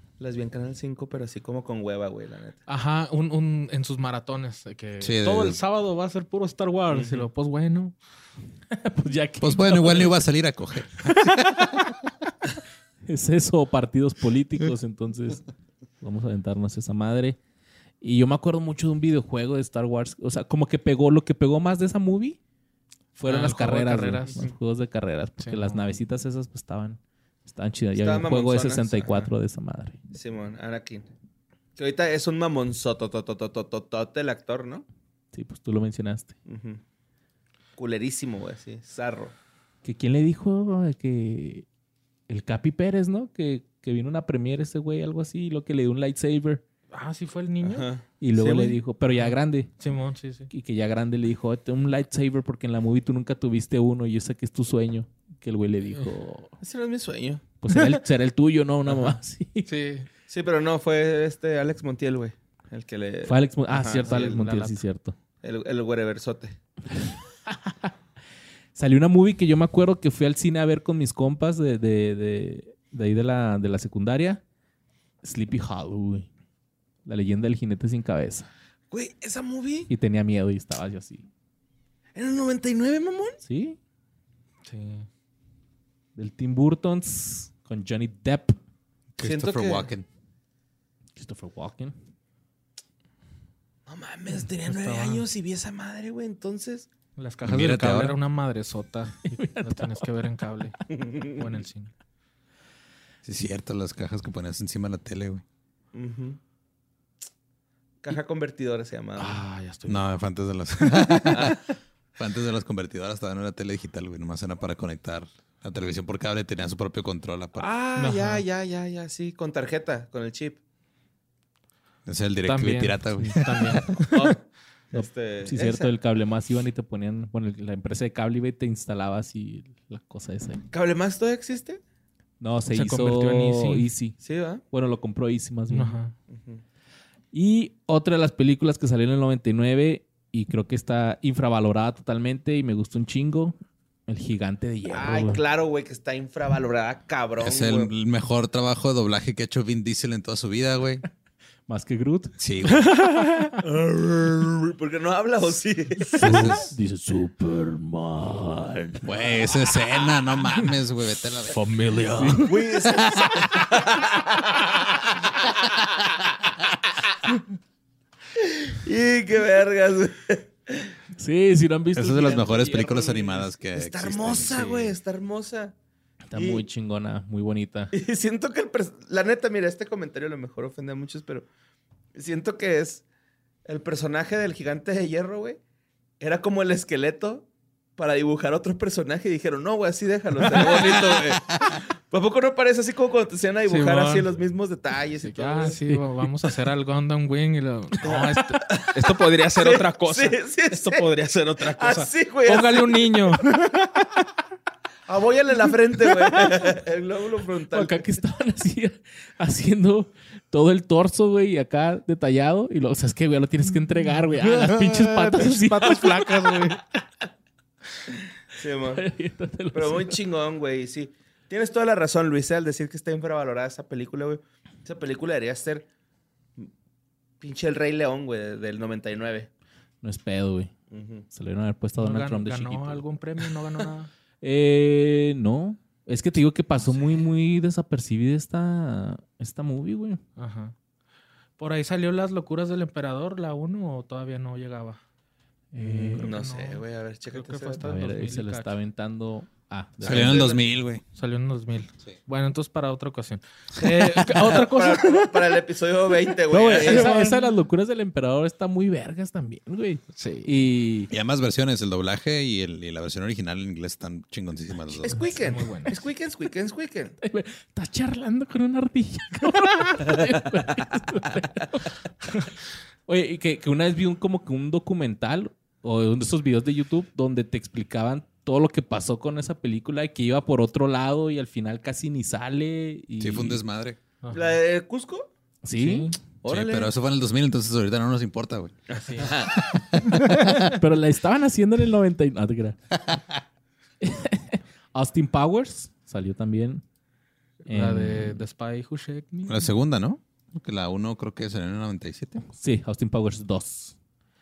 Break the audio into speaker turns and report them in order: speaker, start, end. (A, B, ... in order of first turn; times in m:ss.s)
0:00.2-0:02.6 A
0:02.7-0:08.0 B
0:05.0-0:05.6 C
0:06.9-0:07.2 A
0:08.7-0:10.2 D
0:09.4-0:11.6 C
0:11.2-0:11.7 B
0:13.0-0:15.4 D
0:16.0-0:17.4 D
0:18.0-0:22.4 D
0:23.2-0:30.0 D
0:23.2-0:24.4 B
0:25.4-0:25.8 B
0:28.0-0:29.3 A
0:30.1-0:31.1 A
0:31.8-0:34.8 A
0:35.3-0:36.4 D
0:36.4-0:36.8 A
0:37.8-0:39.3 A
0:39.8-0:41.6 D
0:42.3-0:46.6 D
0:46.9-0:47.9 B
0:47.6-0:48.8 A
0:48.2-0:49.7 D
0:49.2-0:50.5 B
0:50.5-0:56.6 D
0:56.6-0:58.0 A
0:57.6-0:59.7 D
0:59.6-1:00.1 B
1:00.3-1:04.5 A
1:03.3-1:05.2 D
1:04.0-1:04.8 B
1:05.4-1:06.6 A
1:07.1-1:07.9 D
1:08.8-1:14.4 D
1:15.2-1:16.3 D
1:17.0-1:18.5 D
1:18.9-1:19.9 A
1:19.9-1:21.3 D
1:22.1-1:23.4 A
1:23.4-1:23.8 D
1:24.6-1:25.1 B
1:26.2-1:28.6 D
1:29.2-1:30.0 C
1:29.2-1:29.9 A
1:31.2-1:31.9 D
1:33.9-1:36.9 A
1:34.4-1:35.2 B
1:37.2-1:41.9 B
1:37.4-1:38.2 C
1:39.2-1:40.1 D
1:40.9-1:41.4 A
1:43.2-1:45.4 C
1:45.9-1:46.4 A
1:48.0-1:49.5 A
1:49.2-1:51.4 B
1:49.9-1:51.6 C
1:51.3-1:51.6 A
1:52.2-1:57.7 C
1:57.6-2:00.6 A
1:58.0-1:58.4 B
2:02.0-2:03.9 C
2:02.4-2:04.3 B
2:04.1-2:05.9 A
2:04.9-2:10.6 D
2:10.7-2:11.8 A
2:12.4-2:14.2 D
2:12.7-2:13.9 B
2:14.2-2:14.6 A
2:14.7-2:16.0 D
2:15.7-2:16.1 B
2:16.3-2:16.6 A
2:17.3-2:25.4 D
2:24.9-2:27.9 A
2:27.4-2:31.0 C
2:31.7-2:32.4 D
2:32.4-2:32.9 C
2:32.6-2:33.6 B
2:33.2-2:33.5 D
2:33.6-2:36.5 A
2:36.1-2:39.0 D
2:36.2-2:36.7 C
2:39.0-2:41.6 C
2:41.5-2:42.6 B
2:42.2-2:42.4 D
2:42.4-2:45.8 A
2:42.8-2:43.5 C
2:46.6-2:47.3 A
2:48.3-2:50.9 A
2:51.2-2:53.3 D
2:51.9-2:54.8 C
2:53.4-2:55.7 A
2:54.6-2:54.9 D
2:56.3-2:57.9 D
2:56.3-2:56.6 A
2:57.9-3:01.5 A
3:02.1-3:03.0 A
3:03.6-3:05.6 A
3:06.2-3:15.8 A
3:13.7-3:14.3 B
3:15.2-3:24.2 B
3:18.0-3:21.1 A
3:21.7-3:23.4 A
3:25.1-3:28.2 A
3:27.7-3:36.3 D
3:34.0-3:36.8 B
3:38.5-3:39.0 A
3:38.9-3:40.1 D
3:39.7-3:45.9 A
3:47.4-3:49.5 A
3:50.0-3:50.7 D
3:50.9-3:51.3 A
3:51.3-3:53.0 D
3:52.0-3:54.1 B
3:54.4-4:00.2 D
4:00.4-4:00.7 B
4:01.6-4:05.0 B
4:05.7-4:06.3 D
4:05.8-4:08.7 B
4:06.1-4:07.8 A
4:07.8-4:10.4 D
4:10.0-4:11.0 C
4:10.0-4:10.7 A
4:11.1-4:15.6 B
4:14.3-4:17.1 A
4:16.5-4:21.1 D
4:16.8-4:17.4 B
4:20.1-4:20.5 B
4:21.1-4:25.3 C
4:25.0-4:27.2 A
4:25.2-4:26.0 B
4:27.2-4:32.4 D
4:33.1-4:43.6 D
4:43.2-4:44.0 C
4:44.2-4:44.5 B
4:44.3-4:45.3 A
4:45.6-4:46.1 D
4:45.8-4:46.2 B
4:46.4-4:46.9 A
4:46.4-4:50.7 C
4:49.0-4:49.8 A
4:49.0-4:49.3 B
4:50.3-4:52.8 D
4:54.0-4:56.8 D
4:57.6-4:58.4 D
4:57.6-4:59.6 B
4:59.5-5:02.4 C
5:02.5-5:04.0 D